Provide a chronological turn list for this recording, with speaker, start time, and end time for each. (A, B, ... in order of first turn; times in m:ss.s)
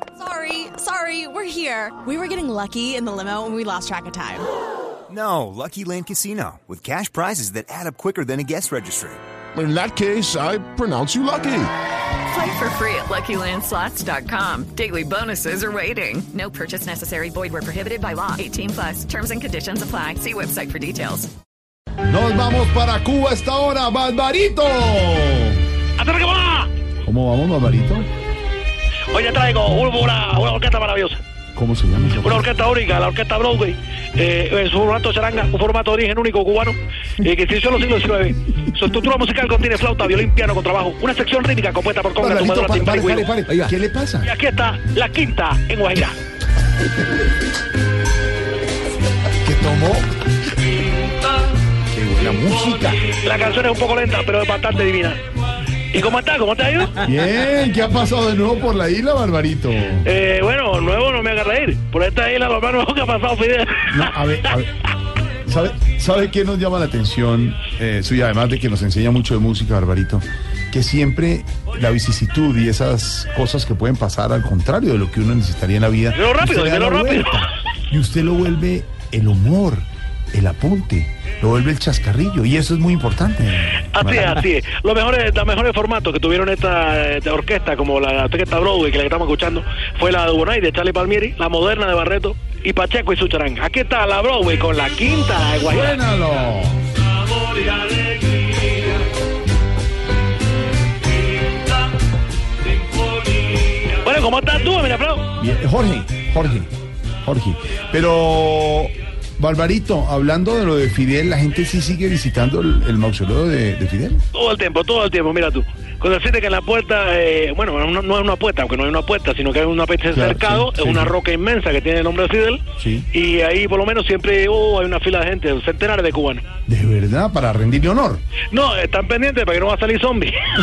0:00.2-0:04.5 A
0:05.1-0:09.2 B
0:09.5-0:11.7 C
0:12.3-0:21.3 D
0:22.1-0:25.6 E
0:26.0-0:26.7 F
0:27.0-0:28.1 E
0:29.1-0:31.2 F
0:31.5-0:32.4 E
0:32.2-0:43.3 F
0:42.2-0:44.3 E
0:44.2-0:46.2 F
0:49.4-0:50.1 E
0:51.9-0:53.0 E
0:53.2-0:55.2 F
0:55.9-0:57.0 F
0:57.0-1:00.1 E
1:00.0-1:04.1 F
1:03.9-1:04.7 E
1:05.4-1:24.4 E
1:16.2-1:17.4 F
1:24.0-1:36.0 F
1:35.6-1:36.8 E
1:37.6-1:38.6 F
1:43.8-1:45.2 F
1:45.4-1:46.7 E
1:47.2-1:54.2 E
1:54.3-2:02.6 F
2:00.1-2:01.1 E
2:02.8-2:03.1 E
2:03.1-2:06.4 F
2:06.7-2:08.2 E
2:08.5-2:10.3 F